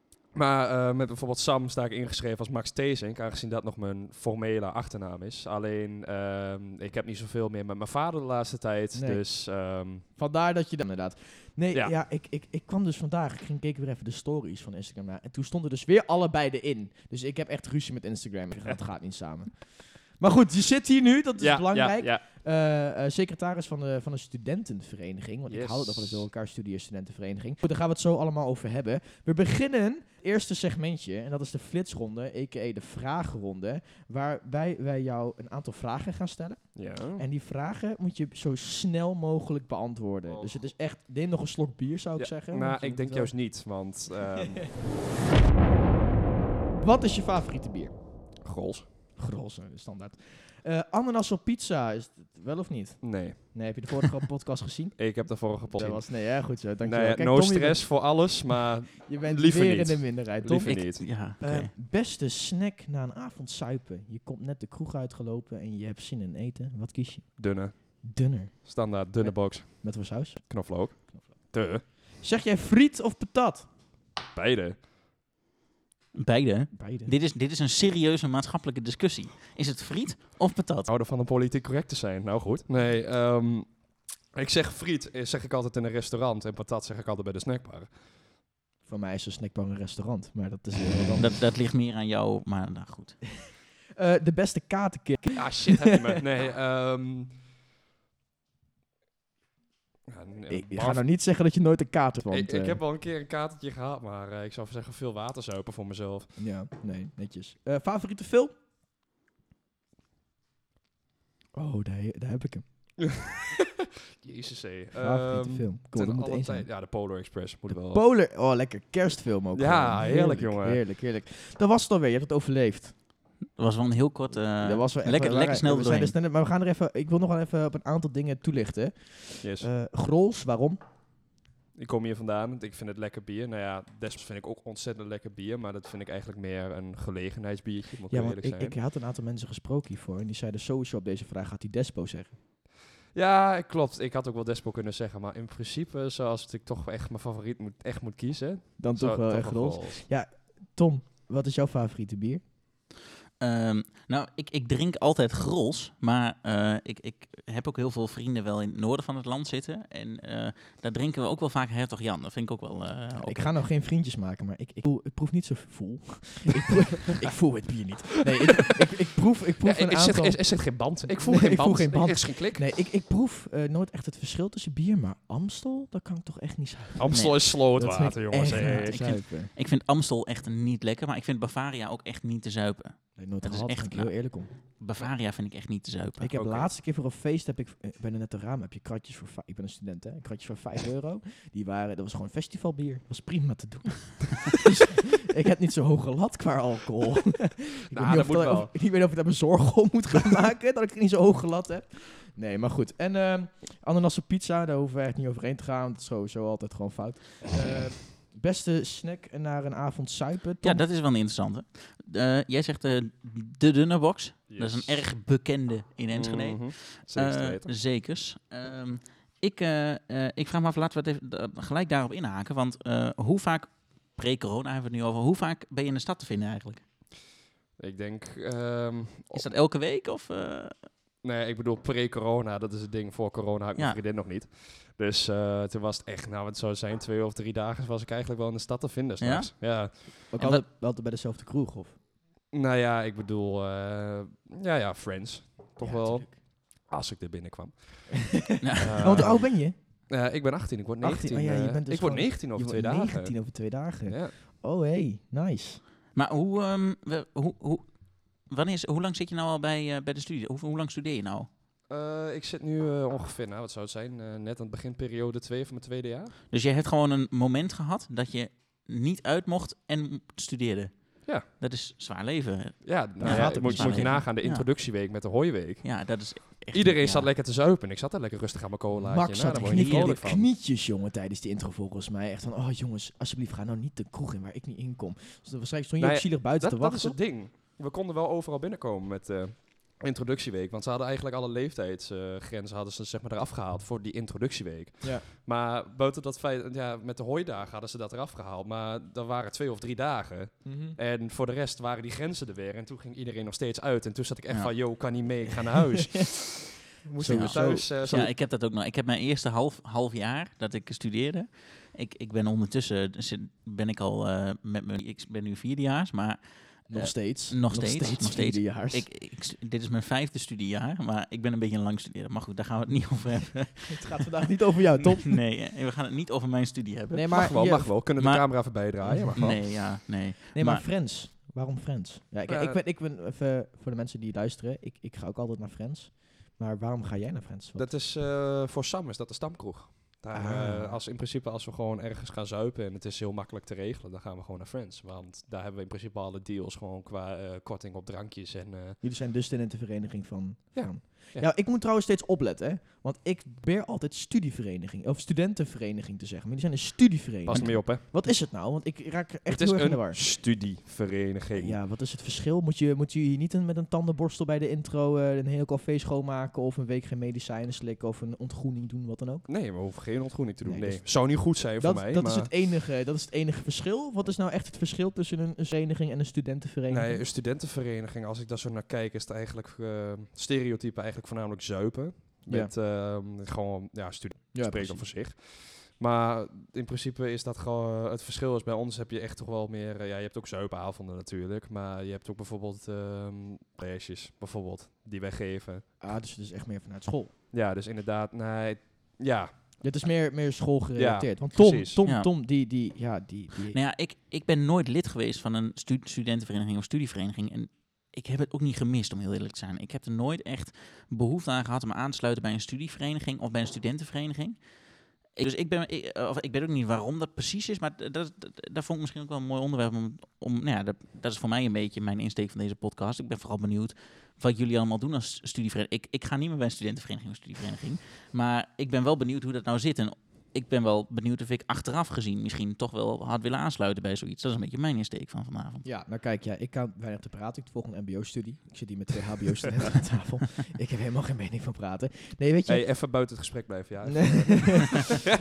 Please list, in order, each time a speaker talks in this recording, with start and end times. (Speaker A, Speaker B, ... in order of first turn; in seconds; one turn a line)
Speaker A: 0.3-10.1
Speaker B: 8.9-9.2
Speaker B: 10.2-43.4
Speaker A: 21.4-22.3
Speaker A: 25.5-26.3
Speaker A: 36.8-37.2
Speaker A: 40.3-40.6
Speaker A: 42.2-44.9
Speaker B: 46.7-47.9
Speaker A: 48.4-48.9
Speaker B: 49.2-71.3
Speaker A: 53.0-54.2
Speaker A: 55.0-61.2
Speaker C: 60.6-61.7
Speaker A: 67.4-68.0
Speaker A: 68.7-71.8
Speaker B: 72.2-73.7
Speaker A: 74.3-74.9
Speaker C: 76.1-80.9
Speaker B: 76.7-77.1
Speaker A: 80.9-88.0
Speaker B: 88.8-91.4
Speaker C: 91.2-93.2
Speaker B: 94.0-96.2
Speaker A: 95.3-97.4
Speaker A: 100.1-101.0
Speaker B: 100.5-102.8
Speaker A: 102.3-106.3
Speaker B: 106.4-108.5
Speaker B: 111.5-112.7
Speaker A: 113.0-118.0
Speaker B: 115.0-116.7
Speaker B: 117.7-123.0
Speaker A: 119.5-120.8
Speaker C: 123.6-126.2
Speaker B: 124.6-130.8
Speaker A: 129.4-129.7
Speaker A: 131.8-138.8
Speaker B: 138.1-142.3
Speaker A: 143.1-150.0
Speaker B: 148.8-152.4
Speaker C: 153.4-163.4
Speaker B: 163.2-170.4
Speaker A: 169.6-172.7
Speaker B: 171.1-179.5
Speaker A: 177.0-179.1
Speaker C: 177.1-177.4
Speaker C: 178.5-186.3
Speaker B: 183.2-184.5
Speaker B: 186.2-210.8
Speaker A: 186.3-186.7
Speaker A: 197.9-198.8
Speaker C: 210.6-226.8
Speaker A: 214.5-215.0
Speaker A: 216.1-217.7
Speaker A: 227.8-229.4
Speaker C: 229.3-230.8
Speaker A: 231.2-240.3
Speaker C: 239.2-239.8
Speaker B: 240.3-242.0
Speaker C: 240.4-240.7
Speaker A: 242.5-254.4
Speaker B: 245.8-246.4
Speaker C: 248.6-249.3
Speaker B: 249.0-249.8
Speaker B: 251.0-255.8
Speaker C: 256.1-261.5
Speaker A: 261.9-266.3
Speaker C: 266.5-274.7
Speaker A: 272.8-280.5
Speaker B: 273.2-274.3
Speaker C: 275.8-277.3
Speaker B: 279.0-287.2
Speaker C: 279.5-280.2
Speaker A: 286.0-308.3
Speaker B: 300.6-301.0
Speaker B: 307.2-308.3
Speaker C: 307.2-324.2
Speaker B: 316.9-319.1
Speaker B: 323.9-325.4
Speaker C: 325.0-327.6
Speaker B: 327.1-328.0
Speaker A: 327.3-329.6
Speaker C: 328.2-328.8
Speaker B: 329.0-337.9
Speaker C: 329.4-330.9
Speaker A: 332.5-332.8
Speaker A: 337.8-349.0
Speaker B: 340.3-341.0
Speaker B: 349.0-360.2
Speaker A: 350.8-351.5
Speaker A: 357.4-358.0
Speaker A: 359.5-361.8
Speaker B: 361.5-369.5
Speaker A: 369.5-372.5
Speaker B: 370.6-377.2
Speaker A: 376.9-395.9
Speaker B: 382.5-382.7
Speaker B: 384.5-385.1
Speaker B: 396.0-397.3
Speaker A: 397.5-399.6
Speaker B: 399.8-403.8
Speaker A: 401.0-402.0
Speaker C: 403.7-414.6
Speaker C: 415.3-435.9
Speaker B: 435.8-443.0
Speaker A: 442.7-445.3
Speaker B: 444.1-444.9